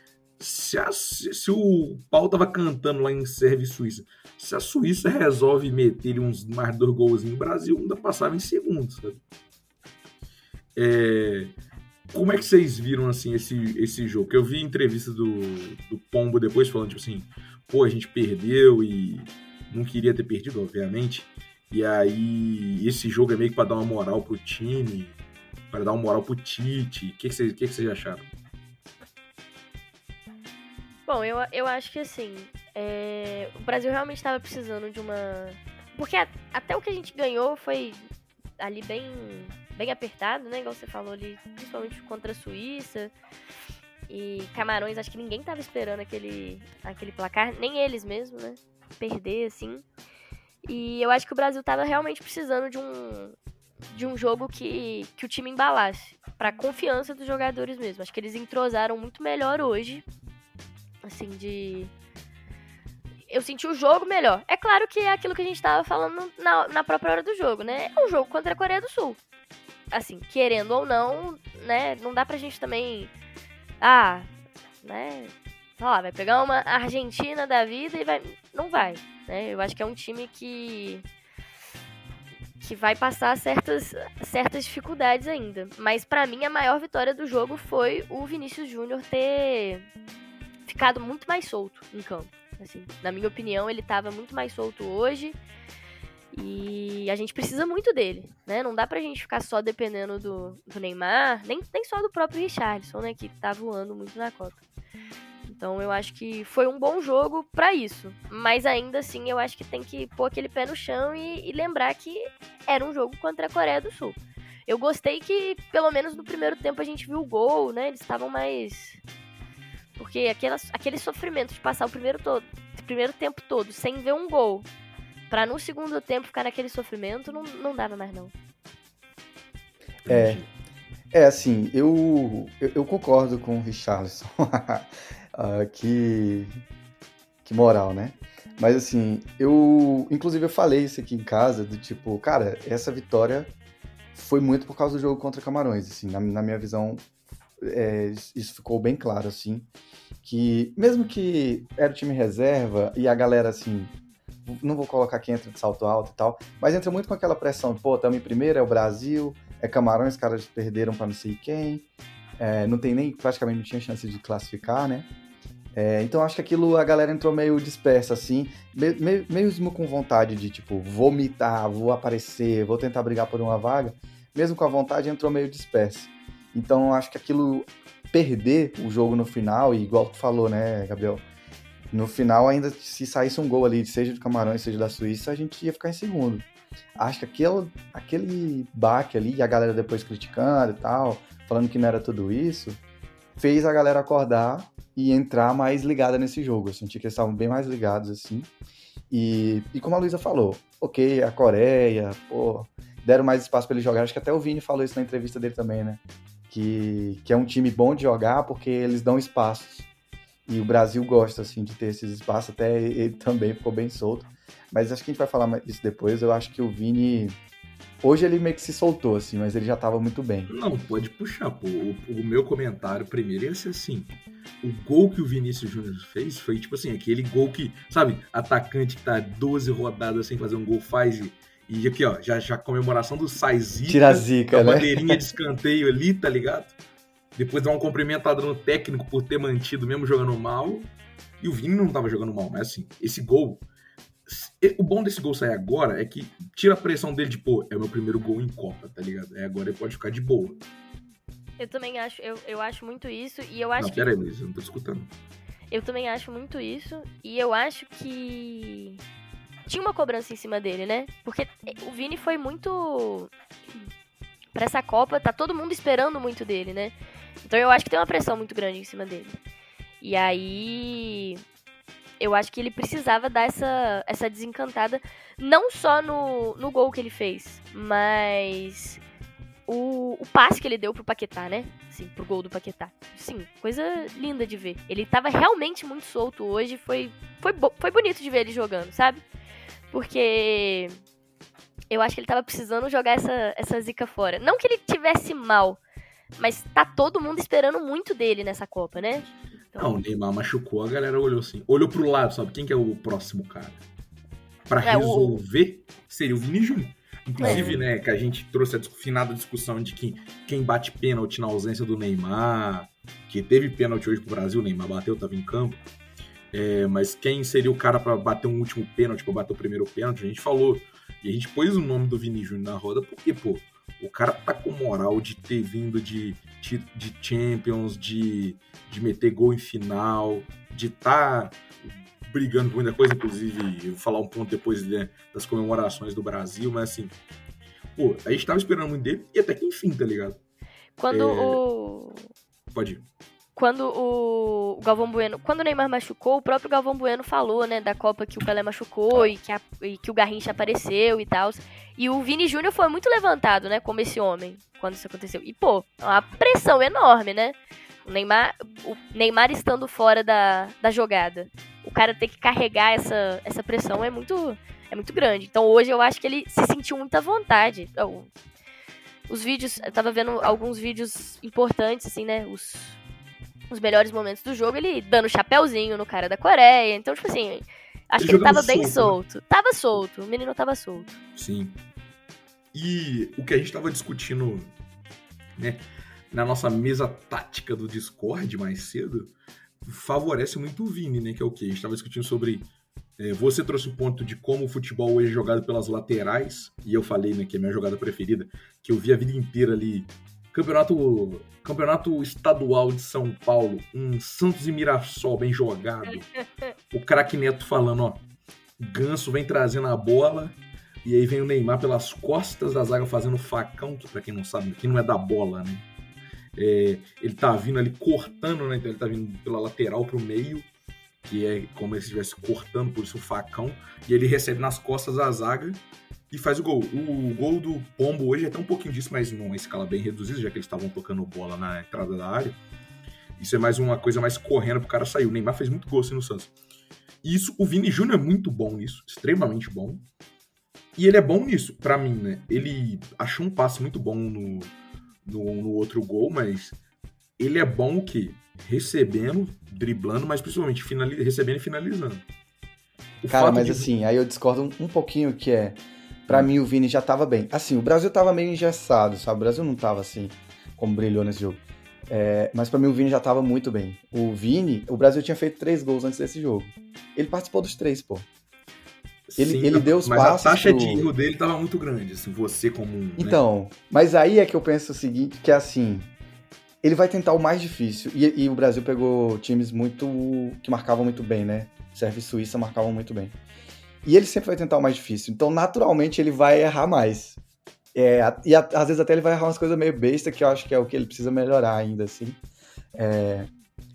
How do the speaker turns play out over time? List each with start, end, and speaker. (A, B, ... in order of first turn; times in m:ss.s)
0:00.4-0:09.2 A
0:10.8-0:11.5 A
0:12.1-0:25.2 A
0:25.7-0:28.3 A
0:31.1-0:38.1 B
0:38.6-0:43.1 B
0:44.1-0:49.8 B
0:50.6-0:53.4 B
0:53.9-1:00.0 B
1:01.0-1:01.9 B
1:03.3-1:09.2 B
1:09.9-1:13.1 B
1:13.8-1:14.3 B
1:14.8-1:21.0 B
1:22.6-1:29.9 B
1:30.7-1:35.4 B
1:36.3-1:44.6 B
1:45.5-1:59.0 B
2:00.0-2:04.7 B
2:05.3-2:08.3 B
2:10.0-2:10.5 A
2:10.1-2:10.4 C
2:11.1-2:16.6 C
2:17.4-2:23.5 C
2:24.1-2:27.0 C
2:27.6-2:29.7 C
2:30.2-2:33.9 C
2:34.4-2:41.9 C
2:42.4-2:45.1 C
2:45.8-3:01.3 C
3:01.9-3:12.8 C
3:13.4-3:18.5 C
3:19.1-3:29.9 C
3:30.5-3:37.4 C
3:38.0-3:40.5 C
3:40.5-3:56.8 A
3:53.9-3:55.2 C
3:57.4-4:03.6 A
4:04.3-4:10.6 A
4:11.6-4:14.2 B
4:13.8-4:15.1 A
4:15.7-4:19.0 B
4:19.7-4:23.3 B
4:24.5-4:29.4 B
4:30.0-4:31.4 B
4:32.2-4:39.0 B
4:39.7-4:49.2 B
4:49.9-4:51.0 B
4:51.9-4:55.8 B
4:56.4-4:59.9 B
4:59.8-5:03.8 A
5:04.7-5:15.8 A
5:04.8-5:05.4 B
5:07.4-5:07.8 B
5:07.4-5:07.8 C
5:16.5-5:31.6 A
5:32.2-5:37.1 A
5:38.0-5:40.4 A
5:41.0-5:42.2 B
5:41.1-5:41.6 A
5:42.7-5:43.0 A
5:43.6-6:08.3 B
6:09.3-6:13.0 B
6:13.7-6:21.2 B
6:18.2-6:19.2 A
6:21.4-6:21.8 A
6:22.7-6:24.7 A
6:25.6-6:46.3 A
6:46.9-6:48.2 A
6:48.8-6:55.9 A
6:56.6-7:00.7 A
7:01.2-7:12.6 A
7:13.4-7:16.5 A
7:17.2-7:20.0 A
7:21.0-7:24.7 A
7:25.2-7:26.8 A
7:27.4-7:32.2 A
7:33.2-7:33.9 A
7:33.3-7:48.3 C
7:49.3-7:53.4 A
7:49.4-7:51.1 C
7:53.2-7:56.1 C
7:56.8-8:03.4 C
8:04.0-8:07.4 C
8:08.0-8:12.4 C
8:13.0-8:13.5 C